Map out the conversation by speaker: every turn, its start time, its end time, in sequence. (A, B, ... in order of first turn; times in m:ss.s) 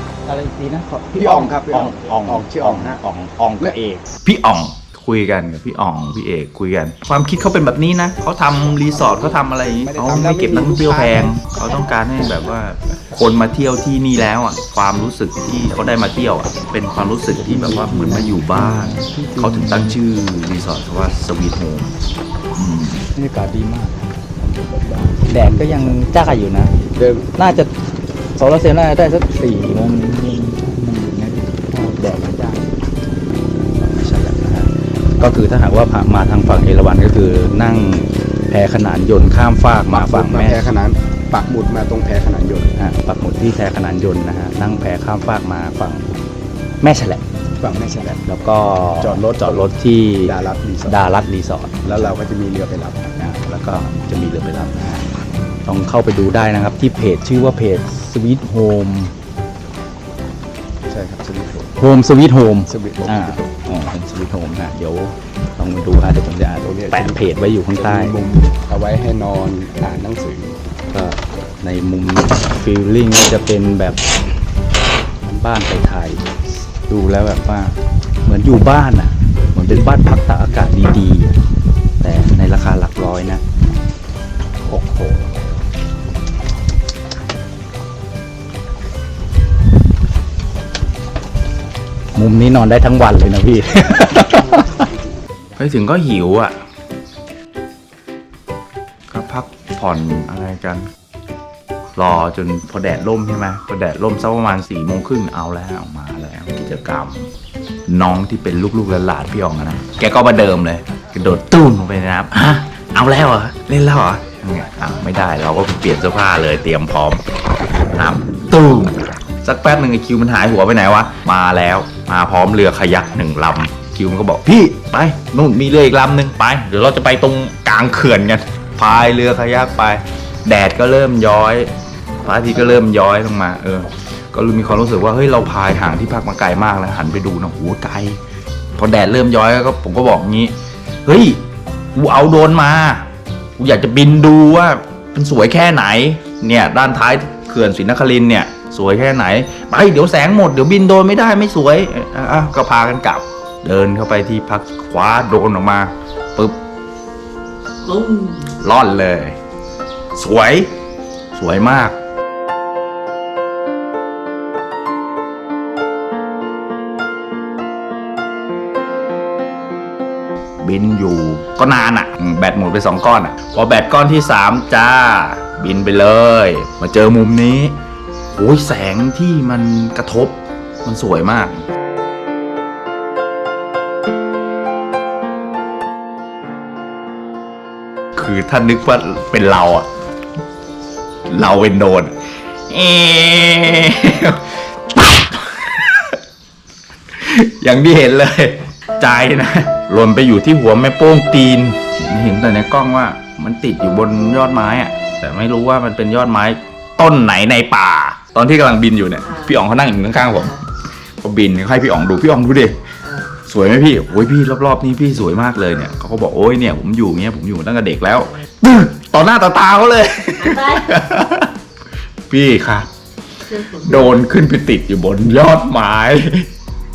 0:00.3-0:04.0 A
0:01.1-0:03.0 B
0:04.2-0:21.9 C
0:08.9-0:11.3 B
0:17.4-0:20.0 A
0:22.5-0:23.1 C
0:23.2-0:24.1 A
0:24.9-0:25.7 B
0:25.3-0:26.7 A
0:27.0-0:27.3 B
0:27.4-0:27.7 A
0:28.4-0:32.6 A
0:33.6-0:40.7 A
0:39.9-0:42.7 B
0:42.8-0:46.1 A
0:46.8-0:47.2 A
0:47.6-0:48.2 B
0:48.3-0:50.3 A
0:49.0-0:51.0 B
0:50.9-0:51.8 A
0:51.8-0:53.1 B
0:53.2-0:55.1 A
0:55.7-0:59.1 A
1:00.9-1:01.7 B
1:01.8-1:08.1 A
1:02.7-1:03.4 B
1:06.7-1:10.6 B
1:10.9-1:14.0 A
1:15.2-1:16.2 A
1:16.9-1:21.4 A
1:22.0-1:23.4 A
1:24.6-1:25.4 A
1:32.2-1:34.6 A
1:34.3-1:35.4 B
1:35.6-1:36.6 C
1:39.1-1:40.9 C
1:42.0-1:47.3 C
1:47.9-1:57.2 C
1:57.9-2:11.7 C
2:12.2-2:18.2 C
2:18.8-2:21.4 C
2:22.0-2:36.6 C
2:37.8-2:38.5 D
2:38.6-2:39.4 C
2:40.2-2:40.7 C
2:41.3-2:42.0 C
2:50.6-2:57.8 C
2:58.3-3:01.6 C
3:08.2-3:09.9 C
3:11.3-3:12.2 C
3:12.7-3:16.2 C
3:17.1-3:30.6 C
3:29.2-3:29.6 D
3:30.3-3:30.6 D
3:31.2-3:32.8 C
3:33.0-3:33.4 D
3:33.5-3:41.5 C
3:35.8-3:36.1 D
3:40.4-3:41.0 D
3:42.3-3:42.9 C
3:43.4-3:44.2 D
3:43.8-3:46.5 C